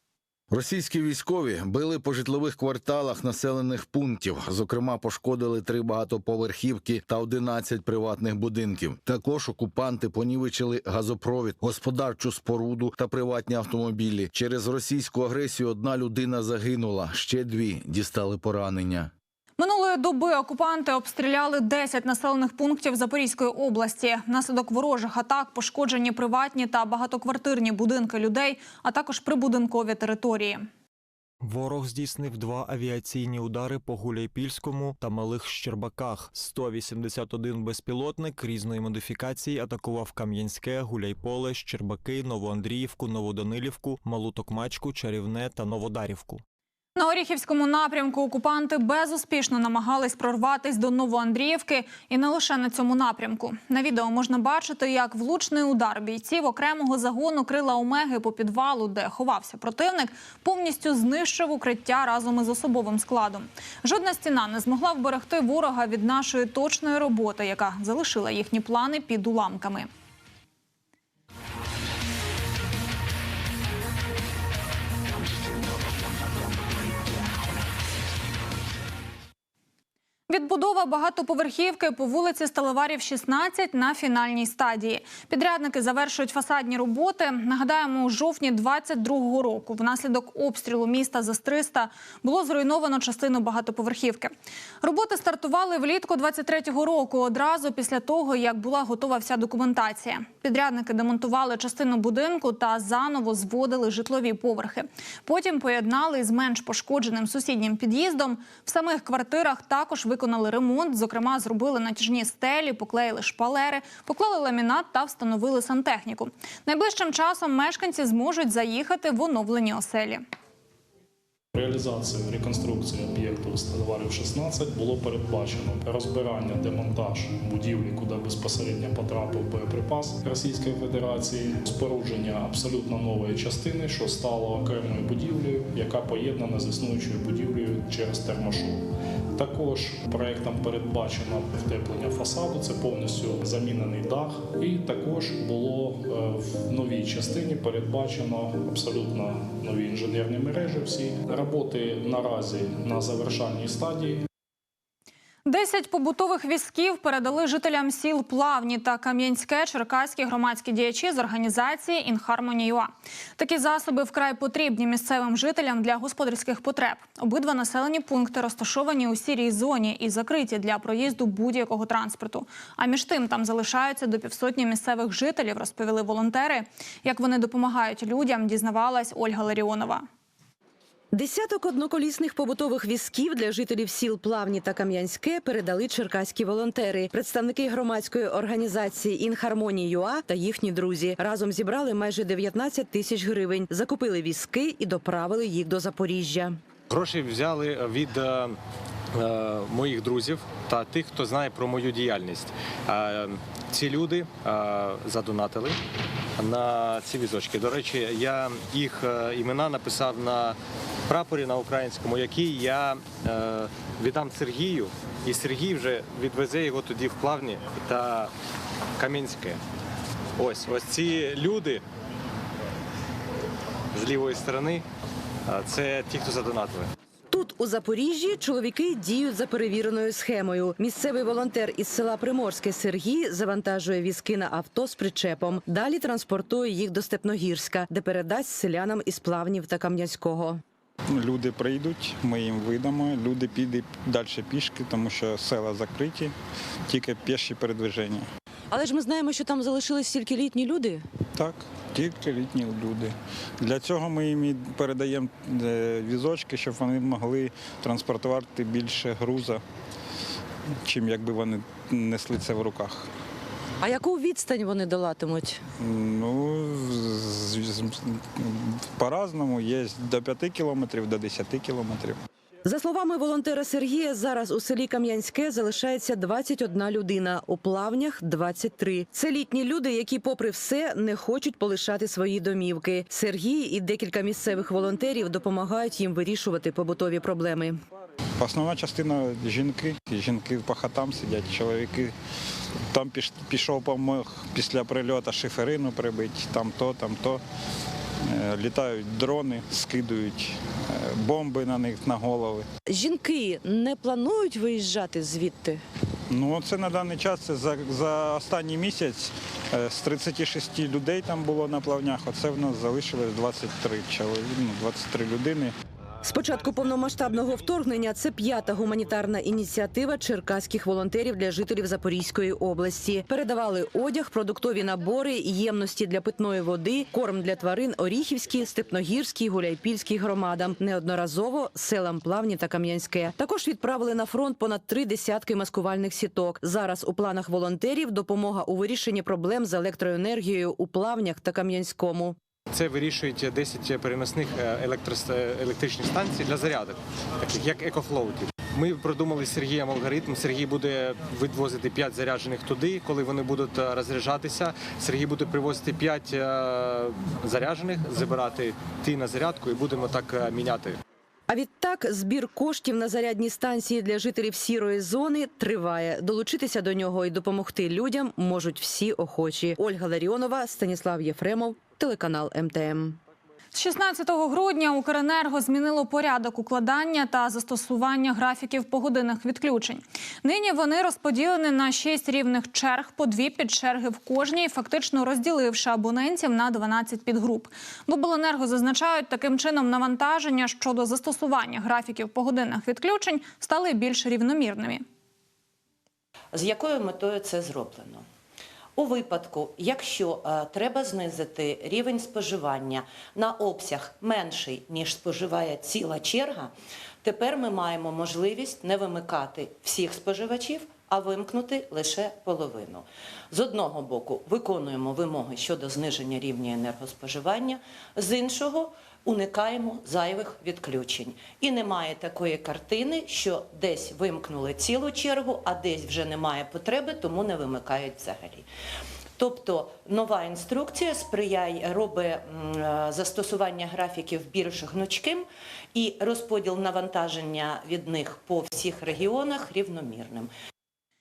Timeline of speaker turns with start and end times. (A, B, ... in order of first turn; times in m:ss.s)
0:00.5-0:19.1 A
0:19.6-0:30.6 B
0:31.4-0:46.4 C
0:47.0-1:09.9 B
1:20.3-1:34.3 B
1:34.8-2:00.2 B
2:01.5-2:18.8 D
2:19.4-2:34.2 D
2:35.4-3:00.0 B
3:01.1-3:16.6 E
3:16.9-3:18.6 F
3:19.2-3:25.8 F
3:26.4-3:38.3 F
3:39.0-3:39.6 F
3:40.4-3:41.8 F
3:43.9-3:44.8 F
3:45.5-3:46.9 F
3:47.3-4:00.6 E
4:01.1-4:06.3 G
4:06.9-4:08.2 G
4:08.7-4:11.0 E
4:11.3-4:19.6 G
4:20.8-4:23.1 G
4:23.8-4:25.6 H
4:25.8-4:32.2 G
4:32.6-4:47.8 E
4:48.4-4:52.1 G
4:52.9-4:57.4 G
4:58.2-5:02.6 G
5:02.9-5:05.8 H
5:06.3-5:15.7 G
5:16.2-5:42.4 E
5:42.7-6:01.0 F
6:01.5-6:13.2 E
6:13.7-6:35.0 B
6:36.5-6:38.2 H
6:39.0-6:46.7 H
6:47.2-7:08.6 H
7:09.4-7:20.5 H